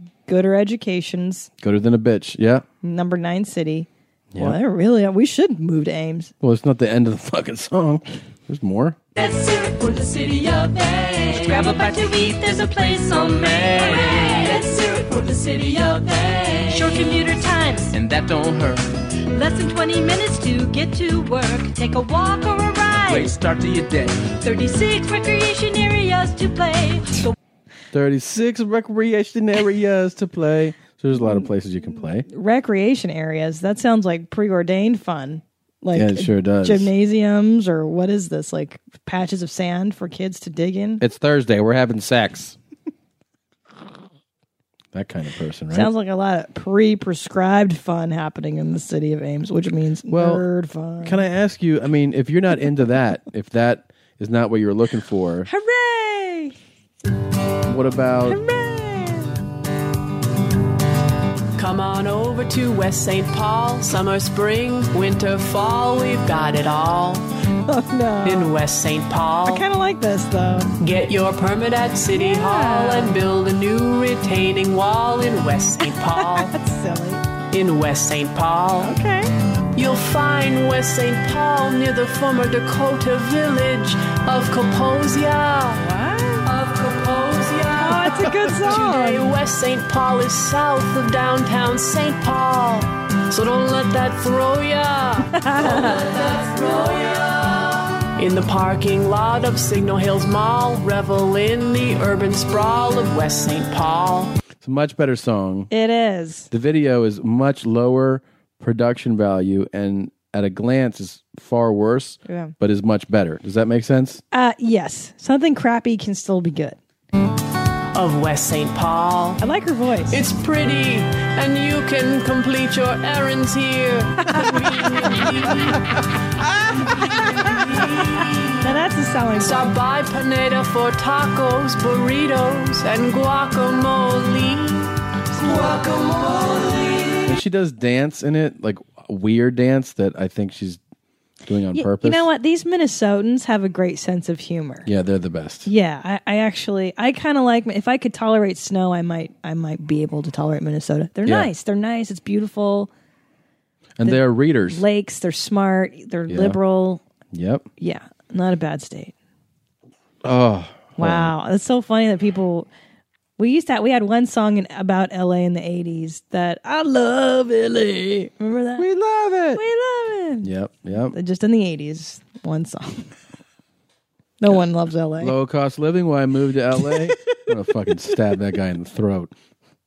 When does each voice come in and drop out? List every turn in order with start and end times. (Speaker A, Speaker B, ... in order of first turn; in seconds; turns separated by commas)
Speaker A: 0.3-1.5, Speaker B: 1.6-2.6, Speaker A: 2.8-6.3, Speaker B: 6.4-9.0, Speaker C: 9.2-17.9, Speaker D: 11.3-12.3, Speaker D: 17.9-18.8, Speaker C: 19.3-23.3, Speaker D: 23.0-24.4, Speaker C: 24.4-27.4, Speaker B: 27.9-32.3, Speaker A: 31.2-41.0, Speaker B: 35.9-36.9, Speaker B: 41.0-42.6, Speaker B: 44.9-45.9, Speaker A: 45.7-51.2, Speaker B: 50.1-50.4, Speaker B: 51.0-55.5, Speaker A: 55.5-56.6, Speaker B: 57.7-58.4, Speaker A: 58.3-59.4, Speaker E: 61.6-67.3, Speaker A: 67.7-68.5, Speaker E: 68.2-69.6, Speaker A: 69.5-70.7, Speaker E: 70.8-76.5, Speaker A: 72.1-73.2, Speaker A: 75.8-77.2, Speaker E: 77.5-79.0, Speaker A: 78.8-79.3, Speaker E: 79.8-85.8, Speaker A: 85.8-86.5, Speaker E: 86.5-97.5, Speaker A: 87.8-89.3, Speaker A: 95.3-96.1, Speaker E: 98.2-104.3, Speaker B: 104.6-105.7, Speaker A: 105.7-106.5, Speaker B: 106.5-114.2, Speaker A: 112.3-112.5, Speaker A: 114.3-116.8, Speaker E: 117.9-119.4, Speaker A: 119.4-120.2, Speaker E: 120.1-125.9, Speaker A: 124.2-125.3, Speaker E: 127.4-128.6, Speaker A: 128.6-129.7, Speaker E: 129.4-135.0, Speaker B: 137.2-140.8, Speaker B: 141.5-142.3, Speaker A: 141.7-144.9, Speaker B: 144.8-145.7, Speaker A: 145.7-152.9, Speaker B: 154.0-154.8, Speaker A: 154.0-157.0, Speaker B: 156.3-156.6, Speaker B: 157.3-157.7, Speaker A: 157.8-159.1, Speaker B: 160.2-161.3, Speaker A: 161.0-162.7, Speaker A: 163.4-168.9, Speaker B: 168.8-169.6, Speaker A: 169.6-170.5, Speaker B: 170.4-171.2, Speaker A: 171.1-173.1, Speaker A: 174.4-175.3, Speaker B: 175.2-179.3